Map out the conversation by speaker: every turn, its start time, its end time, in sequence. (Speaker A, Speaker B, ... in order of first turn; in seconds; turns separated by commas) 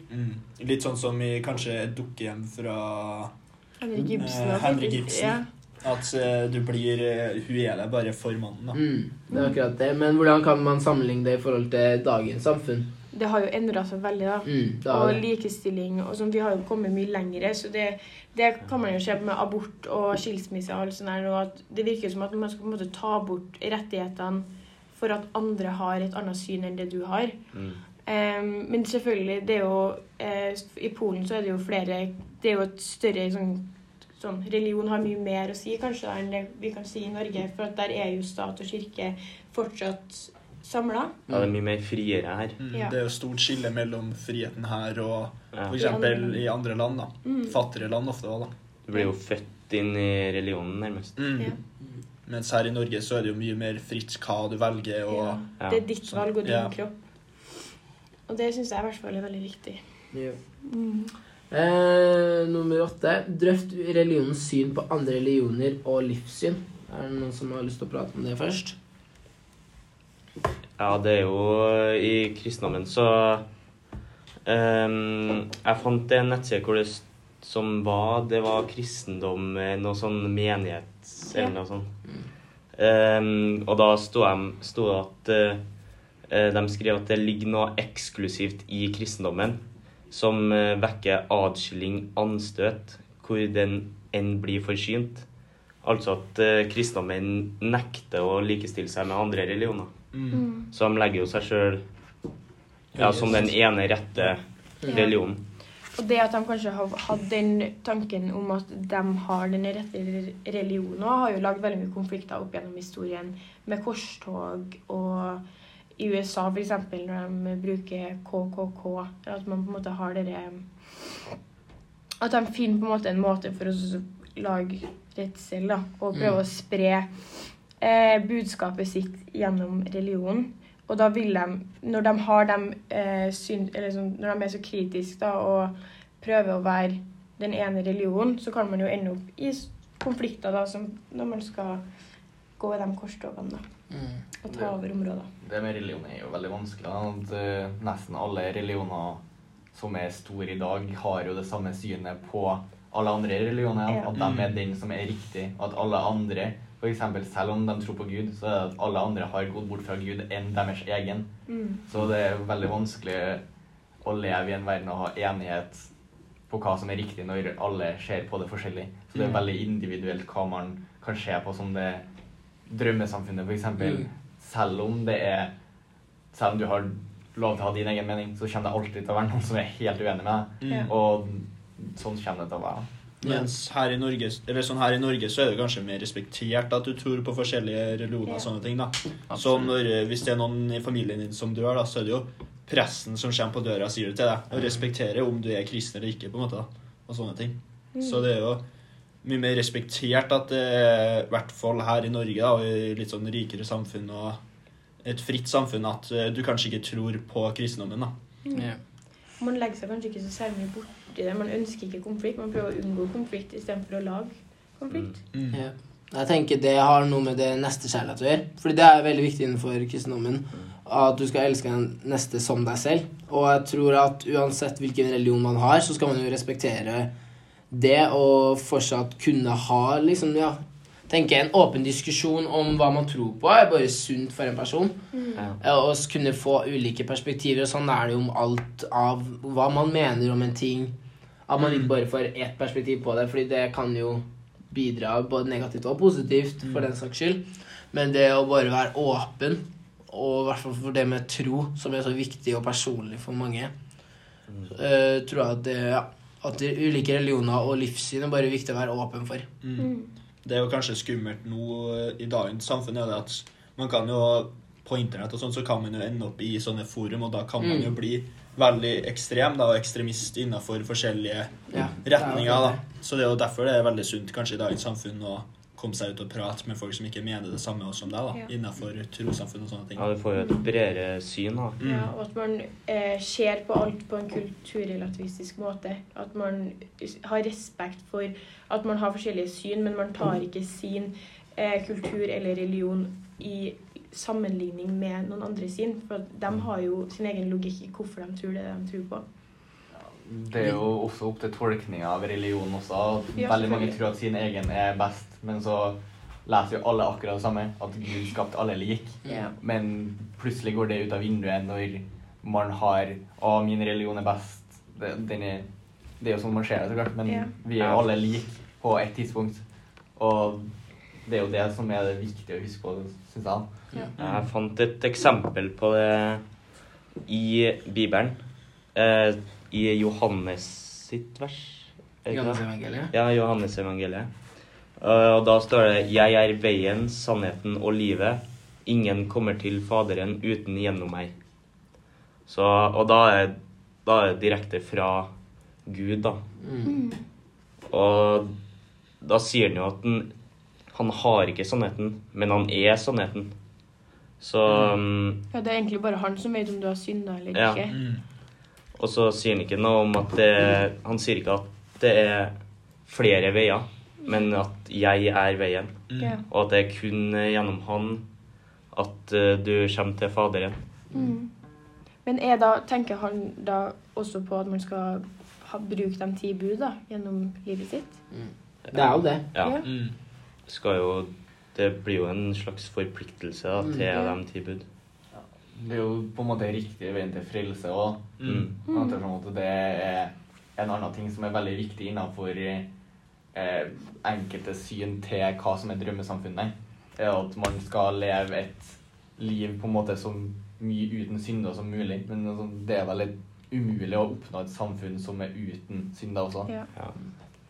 Speaker A: 0.1-3.3, Speaker B: 3.8-5.5, Speaker A: 4.2-8.8, Speaker C: 8.7-12.9, Speaker B: 9.3-9.6, Speaker B: 13.1-27.4, Speaker C: 14.4-15.2, Speaker D: 27.5-27.8, Speaker B: 28.1-41.2, Speaker D: 41.3-42.6, Speaker A: 42.6-48.5, Speaker B: 45.8-46.4, Speaker B: 47.2-47.5, Speaker D: 48.9-51.1, Speaker A: 51.2-51.5, Speaker A: 52.3-55.4, Speaker B: 55.1-56.9, Speaker A: 56.0-56.7, Speaker B: 58.3-59.8, Speaker B: 60.6-61.1, Speaker C: 61.5-68.8, Speaker D: 70.8-73.5, Speaker D: 74.5-82.0, Speaker D: 82.7-85.6, Speaker D: 86.3-95.3, Speaker D: 95.8-99.9, Speaker A: 100.1-100.4, Speaker B: 100.3-100.7, Speaker D: 100.7-101.8, Speaker D: 103.0-105.4, Speaker A: 103.0-103.3, Speaker C: 103.1-103.5, Speaker B: 104.9-105.2, Speaker B: 106.0-115.4, Speaker B: 116.0-120.6, Speaker B: 122.2-127.1, Speaker B: 127.8-141.8, Speaker B: 142.6-143.6, Speaker C: 143.9-144.2, Speaker B: 144.4-145.3, Speaker E: 145.4-149.2, Speaker E: 149.7-161.3, Speaker A: 154.2-154.5, Speaker B: 161.5-161.8, Speaker E: 161.9-163.4, Speaker E: 164.0-165.9, Speaker E: 166.5-172.1, Speaker E: 172.7-175.5, Speaker E: 176.3-182.9, Speaker A: 180.6-180.9, Speaker C: 183.2-183.5, Speaker A: 183.2-198.6, Speaker B: 198.0-198.2, Speaker A: 199.2-204.4, Speaker A: 205.0-208.1, Speaker C: 208.5-208.8, Speaker B: 209.4-215.2, Speaker D: 214.9-215.2, Speaker A: 215.3-215.6, Speaker C: 215.5-227.1, Speaker C: 227.7-235.0, Speaker B: 235.1-235.5, Speaker C: 235.6-240.9, Speaker C: 241.5-253.7, Speaker A: 241.6-241.9, Speaker C: 254.7-259.5, Speaker A: 259.6-259.9, Speaker B: 259.8-260.1, Speaker A: 260.4-280.1, Speaker C: 267.6-267.9, Speaker C: 271.7-272.8, Speaker D: 280.0-281.8, Speaker A: 281.8-282.1, Speaker B: 281.8-299.2, Speaker E: 299.9-315.7, Speaker B: 303.4-304.0, Speaker B: 309.3-309.6, Speaker E: 316.2-320.7, Speaker B: 317.3-317.5, Speaker D: 317.8-318.1, Speaker E: 321.2-324.4, Speaker D: 324.2-326.4, Speaker D: 327.2-328.4, Speaker D: 328.9-334.3, Speaker C: 332.3-333.1, Speaker D: 335.0-341.3, Speaker D: 342.5-345.3, Speaker D: 345.9-346.4, Speaker C: 346.6-346.9, Speaker B: 346.9-347.2, Speaker D: 347.9-348.5, Speaker D: 349.2-350.3, Speaker D: 350.9-353.5, Speaker D: 354.4-355.4, Speaker B: 355.5-358.0, Speaker D: 357.5-357.8, Speaker A: 357.9-358.2, Speaker D: 359.0-362.6, Speaker D: 363.1-368.2, Speaker A: 366.1-366.4, Speaker D: 368.9-370.8, Speaker B: 371.1-371.5, Speaker B: 372.2-378.2, Speaker C: 378.3-379.5, Speaker D: 378.9-379.8, Speaker B: 379.6-379.9, Speaker A: 379.9-380.1, Speaker D: 380.7-384.9, Speaker B: 384.1-384.4, Speaker E: 385.3-392.9, Speaker A: 388.4-388.7, Speaker D: 388.4-388.7, Speaker B: 388.9-389.2, Speaker E: 393.5-406.7